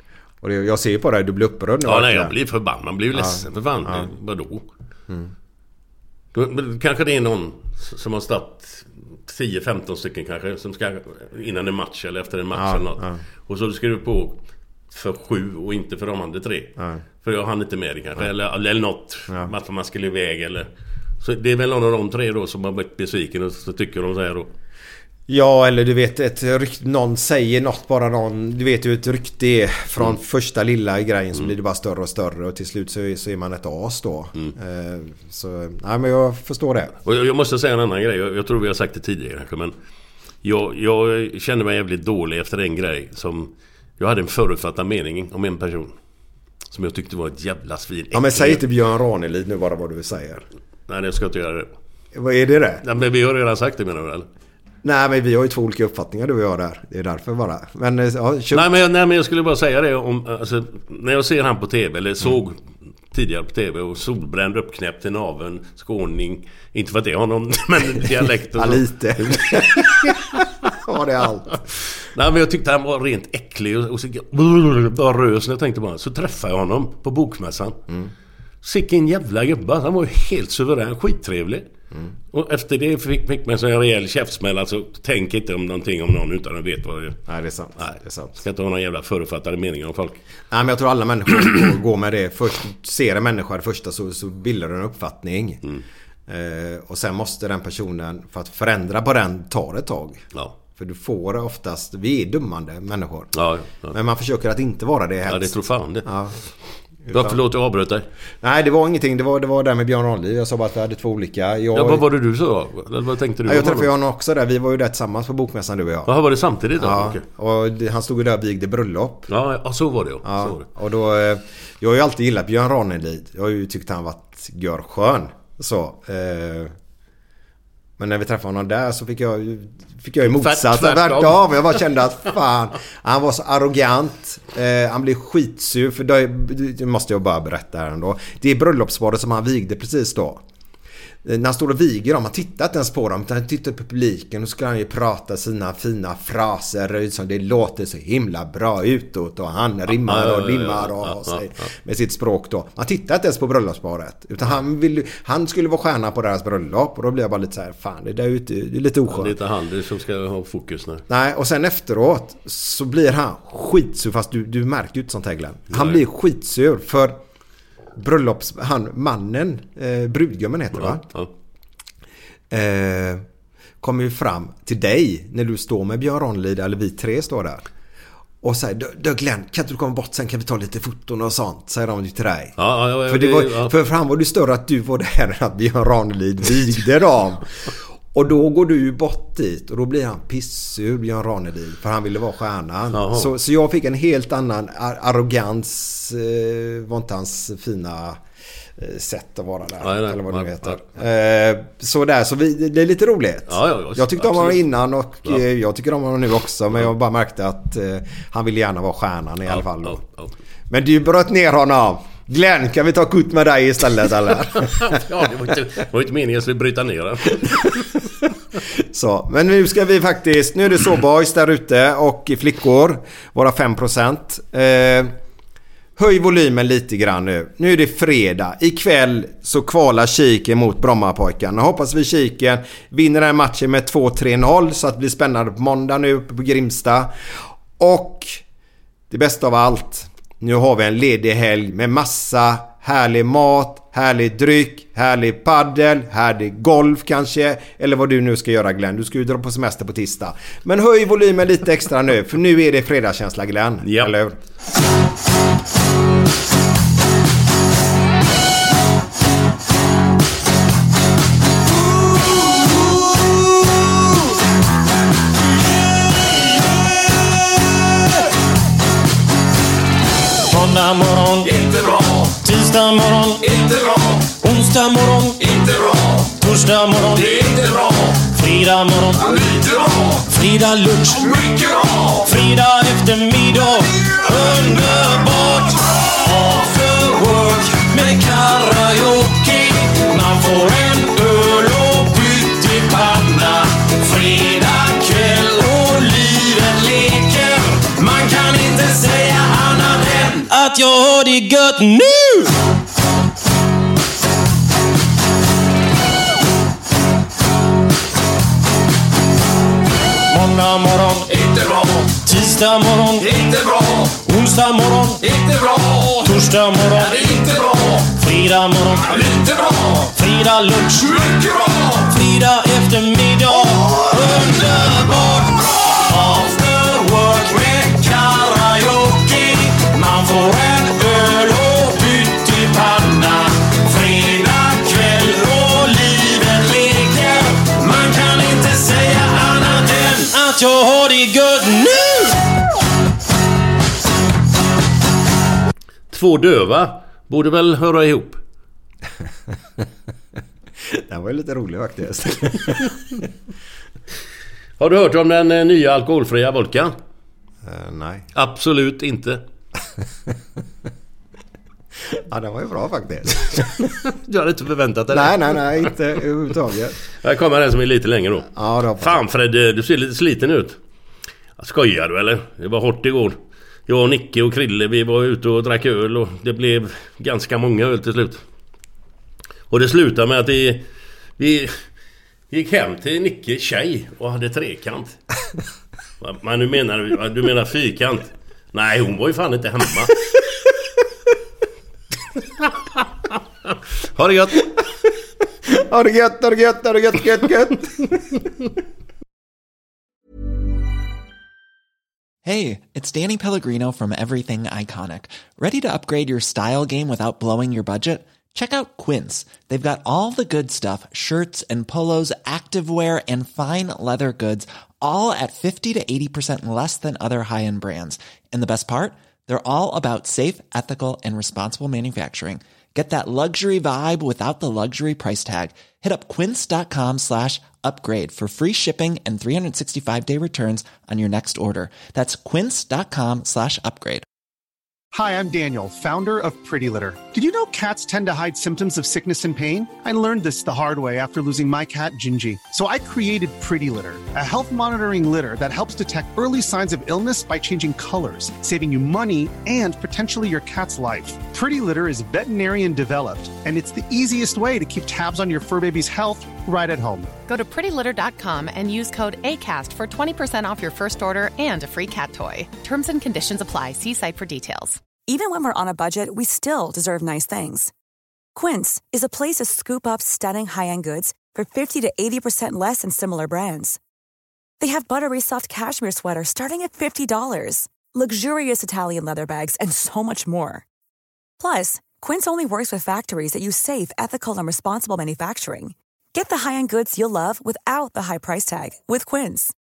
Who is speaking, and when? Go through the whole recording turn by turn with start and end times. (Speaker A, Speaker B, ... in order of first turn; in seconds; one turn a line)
Speaker A: 0.4-2.3
Speaker B: 1.8-4.6
Speaker A: 3.1-4.1
Speaker B: 6.3-14.4
Speaker A: 12.5-13.2
Speaker B: 14.9-20.7
Speaker A: 16.8-17.0
Speaker B: 21.2-24.5
Speaker A: 25.3-36.9
Speaker B: 37.0-39.8
Speaker B: 40.4-45.9
Speaker B: 46.7-48.6
Speaker A: 48.1-50.4
Speaker B: 50.9-51.7
Speaker A: 52.1-52.8
Speaker B: 52.8-54.3
Speaker A: 54.8-58.7
Speaker B: 58.5-62.6
Speaker B: 63.1-70.4
Speaker A: 68.5-71.6
Speaker B: 72.0-77.8
Speaker B: 78.6-81.7
Speaker B: 82.3-87.2
Speaker A: 87.3-88.4
Speaker B: 87.8-90.2
Speaker A: 90.5-95.6
Speaker A: 96.3-103.3
Speaker B: 103.3-104.0
Speaker A: 103.9-106.4
Speaker B: 105.2-106.1
Speaker A: 107.1-107.4
Speaker B: 107.1-108.0
Speaker A: 108.4-112.0
Speaker B: 111.7-113.9
Speaker A: 113.4-116.1
Speaker B: 116.0-117.2
Speaker A: 116.8-119.3
Speaker B: 119.3-120.6
Speaker A: 120.2-126.7
Speaker A: 128.0-140.4
Speaker B: 130.2-131.5
Speaker A: 141.2-159.3
Speaker B: 149.9-151.6
Speaker B: 159.1-161.0
Speaker A: 161.1-167.2
Speaker B: 165.7-166.0
Speaker A: 167.9-171.0
Speaker B: 170.7-171.3
Speaker A: 172.5-173.2
Speaker A: 173.8-177.6
Speaker A: 178.4-198.2
Speaker B: 182.6-183.8
Speaker B: 192.9-193.3
Speaker A: 198.8-210.0
Speaker B: 199.8-200.8
Speaker B: 203.5-204.6
Speaker B: 209.5-210.3
Speaker A: 210.7-215.0
Speaker B: 214.6-218.0
Speaker A: 218.7-225.1
Speaker A: 226.0-238.4
Speaker A: 239.1-254.4
Speaker B: 253.8-254.1
Speaker C: 270.5-302.5
Speaker C: 310.3-342.4
Speaker B: 346.1-348.4
Speaker A: 350.9-353.2
Speaker B: 354.8-356.9
Speaker A: 357.6-358.3
Speaker B: 358.3-359.4
Speaker A: 362.1-363.9
Speaker B: 363.8-365.9
Speaker A: 365.1-367.0
Speaker B: 367.2-370.8
Speaker A: 368.5-369.2
Speaker B: 371.6-378.4
Speaker B: 379.7-380.9
Speaker B: 381.4-381.7
Speaker B: 382.5-385.2
Speaker B: 386.2-390.2
Speaker B: 393.3-394.7
Speaker A: 395.6-398.3
Speaker D: 402.4-434.2
Speaker E: 435.1-457.3
Speaker F: 457.5-465.0
Speaker G: 465.3-467.9
Speaker G: 468.5-474.0
Speaker G: 474.8-480.8
Speaker G: 481.6-489.7